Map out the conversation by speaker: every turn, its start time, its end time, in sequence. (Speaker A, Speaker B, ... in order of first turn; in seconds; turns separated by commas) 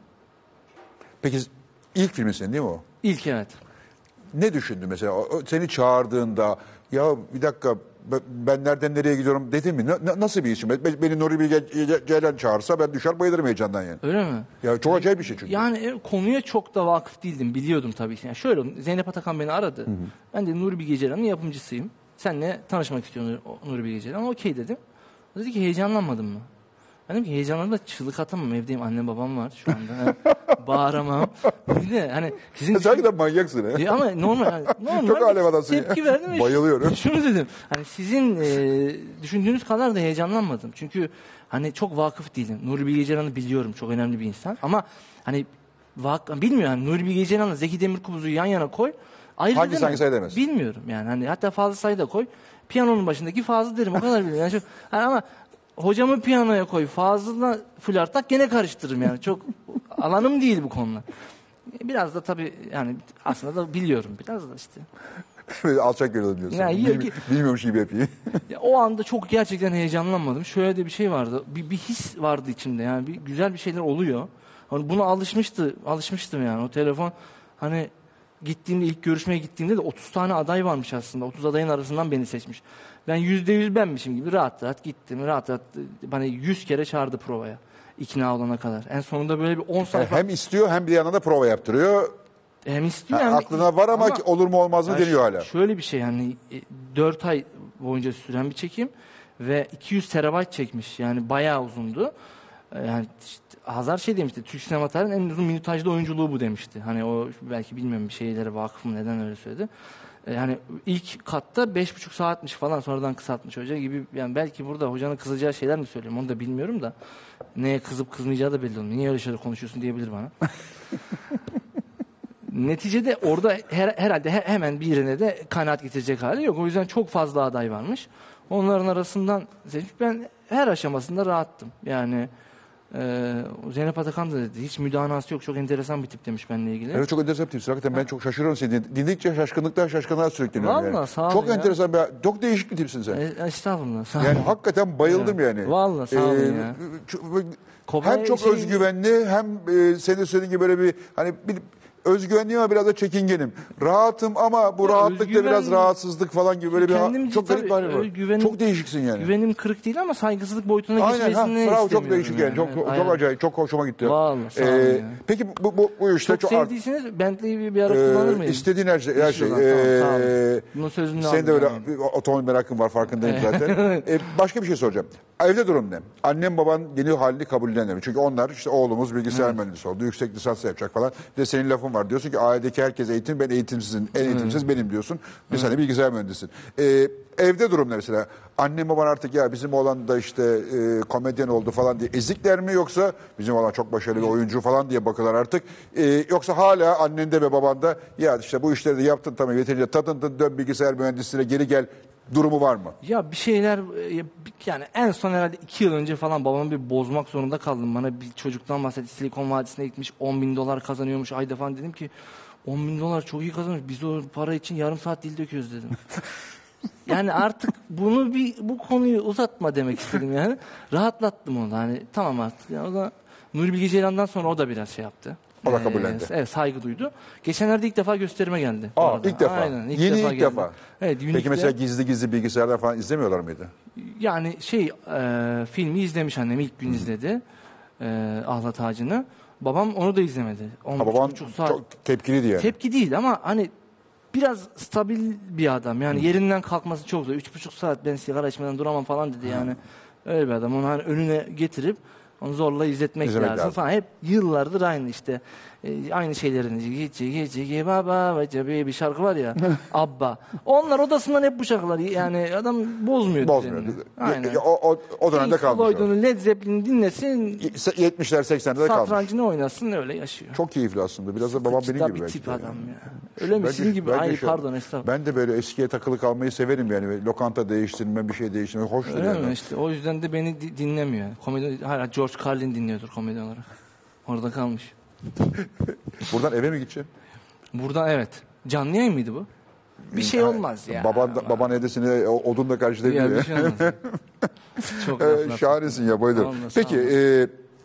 Speaker A: 1.2-2.8, Speaker B: 3.0-3.6, Speaker A: 4.3-14.0, Speaker B: 14.0-24.8, Speaker A: 14.6-15.6, Speaker B: 25.3-26.5, Speaker B: 27.1-33.1, Speaker A: 32.7-37.0, Speaker B: 33.7-55.2, Speaker A: 49.5-50.4, Speaker B: 55.8-61.0, Speaker B: 61.7-64.9, Speaker A: 65.5-68.4, Speaker B: 66.5-67.2, Speaker B: 68.5-90.2, Speaker A: 89.9-92.1, Speaker B: 92.6-94.2, Speaker A: 93.1-95.5, Speaker B: 94.8-102.1, Speaker B: 102.7-109.7, Speaker B: 110.2-116.9, Speaker B: 117.5-120.3, Speaker B: 122.5-132.3, Speaker B: 132.9-137.1, Speaker A: 136.9-143.2, Speaker B: 140.5-141.8, Speaker B: 143.1-144.5, Speaker A: 144.2-159.3, Speaker B: 145.0-146.8, Speaker B: 147.9-148.8, Speaker B: 154.8-155.9, Speaker B: 156.7-158.6, Speaker B: 159.2-163.2, Speaker A: 161.0-166.7, Speaker B: 164.0-165.2, Speaker B: 166.2-171.9, Speaker A: 167.8-203.0, Speaker B: 173.2-174.1, Speaker B: 184.3-184.6, Speaker B: 203.0-212.1, Speaker B: 212.7-216.0, Speaker B: 217.1-231.8, Speaker A: 225.6-226.3, Speaker A: 228.9-230.8, Speaker A: 231.3-233.7, Speaker B: 233.9-237.4, Speaker B: 238.0-241.8, Speaker A: 241.0-242.7, Speaker B: 242.6-243.7, Speaker B: 244.3-264.6, Speaker A: 253.2-253.8, Speaker A: 263.4-266.1, Speaker B: 265.3-267.7, Speaker A: 267.6-269.3, Speaker B: 268.8-270.6, Speaker A: 270.5-279.6, Speaker B: 271.5-275.1, Speaker B: 279.0-283.7, Speaker B: 284.2-284.9, Speaker A: 286.2-287.1, Speaker B: 287.7-289.5, Speaker A: 290.1-297.5, Speaker B: 290.1-291.7, Speaker B: 293.0-294.0, Speaker B: 294.9-297.1